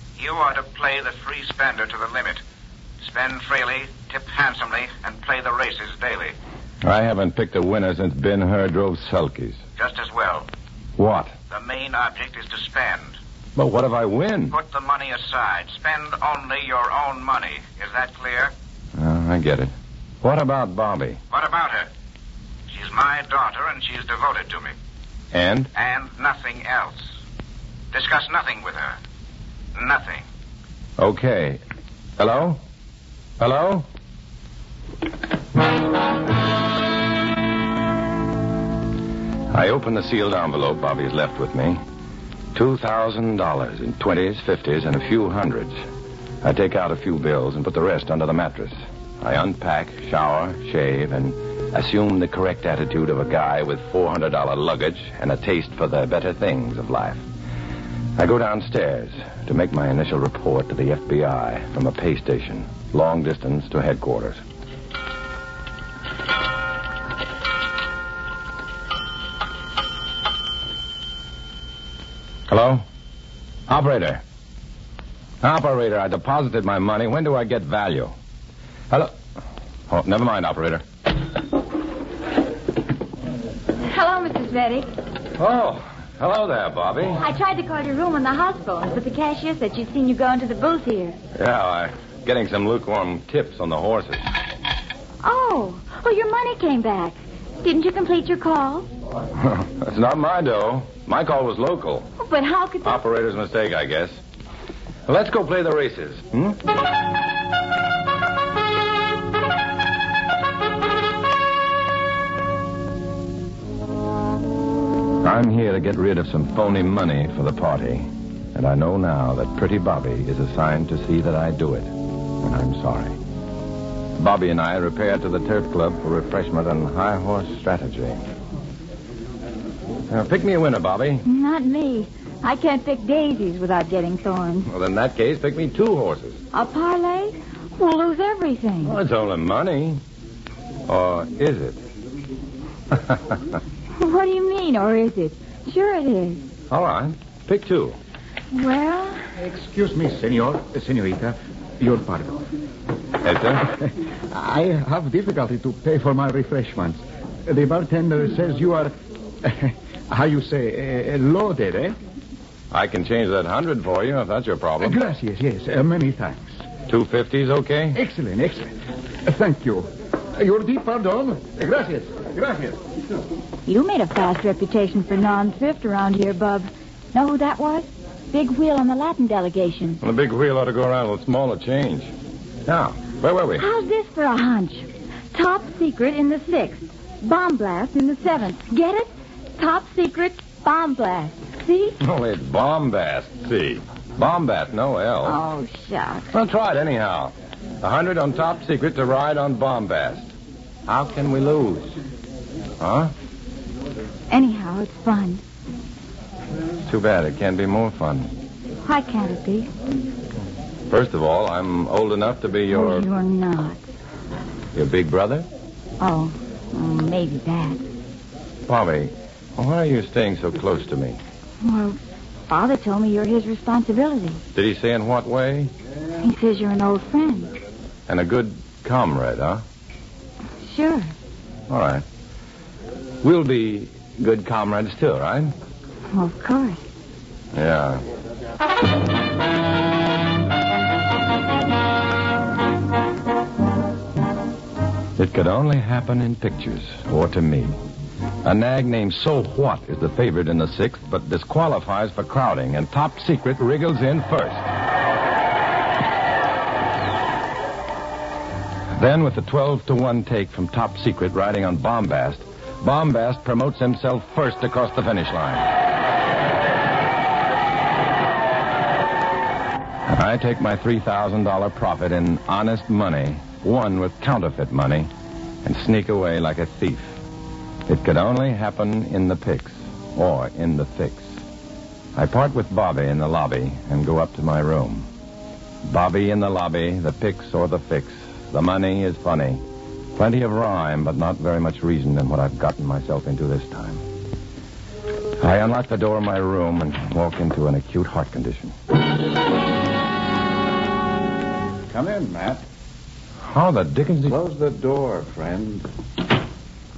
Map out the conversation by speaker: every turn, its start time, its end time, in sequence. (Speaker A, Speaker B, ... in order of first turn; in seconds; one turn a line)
Speaker A: 0.2-2.4
Speaker A: 3.0-6.3
Speaker B: 6.8-9.6
Speaker A: 9.8-10.5
Speaker B: 11.0-11.3
Speaker A: 11.5-13.2
Speaker B: 13.6-14.6
Speaker A: 14.5-18.5
Speaker B: 19.0-21.2
Speaker A: 21.3-21.9
Speaker A: 22.7-24.7
Speaker B: 25.3-25.7
Speaker A: 25.8-27.1
Speaker A: 27.9-29.0
Speaker A: 29.8-30.2
Speaker B: 31.0-31.6
Speaker B: 32.2-32.6
Speaker B: 33.4-33.9
Speaker B: 39.5-41.8
Speaker B: 42.5-45.8
Speaker B: 46.4-57.2
Speaker B: 58.2-64.4
Speaker B: 72.5-72.8
Speaker B: 73.7-74.2
Speaker B: 75.4-78.1
Speaker B: 79.9-80.8
Speaker C: 83.8-84.9
Speaker B: 85.4-87.2
Speaker C: 87.2-91.2
Speaker B: 91.3-94.3
Speaker C: 95.2-98.9
Speaker B: 99.4-102.1
Speaker C: 102.2-103.0
Speaker B: 102.8-104.2
Speaker B: 105.1-106.6
Speaker B: 115.2-123.2
Speaker B: 124.2-128.2
Speaker B: 130.1-131.3
Speaker C: 131.3-134.7
Speaker B: 134.7-136.4
Speaker C: 136.5-139.0
Speaker B: 138.8-140.0
Speaker B: 140.9-141.8
Speaker C: 144.0-146.4
Speaker B: 146.7-148.0
Speaker C: 148.5-149.2
Speaker D: 149.4-152.4
Speaker B: 153.2-153.7
Speaker D: 153.8-158.9
Speaker D: 159.4-162.0
Speaker B: 162.7-165.0
Speaker D: 164.8-166.6
Speaker B: 166.9-168.0
Speaker D: 167.9-172.8
Speaker C: 173.7-180.0
Speaker B: 180.0-182.1
Speaker B: 182.7-183.7
Speaker C: 183.6-192.0
Speaker B: 192.0-195.4
Speaker C: 195.2-196.3
Speaker B: 196.3-200.3
Speaker B: 200.9-202.0
Speaker B: 202.8-203.1
Speaker C: 204.3-205.4
Speaker B: 206.8-208.3
Speaker C: 208.8-209.7
Speaker B: 210.9-213.1
Speaker C: 212.7-213.8
Speaker B: 214.7-215.5
Speaker C: 216.0-217.8
Speaker B: 218.7-221.2
Speaker C: 221.6-222.0
Speaker C: 222.5-224.4
Speaker B: 224.6-225.7
Speaker C: 226.2-227.6
Speaker B: 228.1-229.6
Speaker C: 230.6-231.1
Speaker B: 231.7-232.1
Speaker B: 233.2-235.5
Speaker C: 236.1-236.8
Speaker B: 237.5-238.0
Speaker B: 245.2-247.8
Speaker B: 248.4-254.7
Speaker B: 259.0-265.7
Speaker B: 270.1-275.1
Speaker B: 275.6-277.2
Speaker B: 277.9-281.4
Speaker B: 282.1-285.1
Speaker B: 285.8-289.6
Speaker B: 290.1-294.0
Speaker B: 295.4-298.8
Speaker D: 301.9-302.6
Speaker B: 303.5-304.4
Speaker D: 304.2-305.9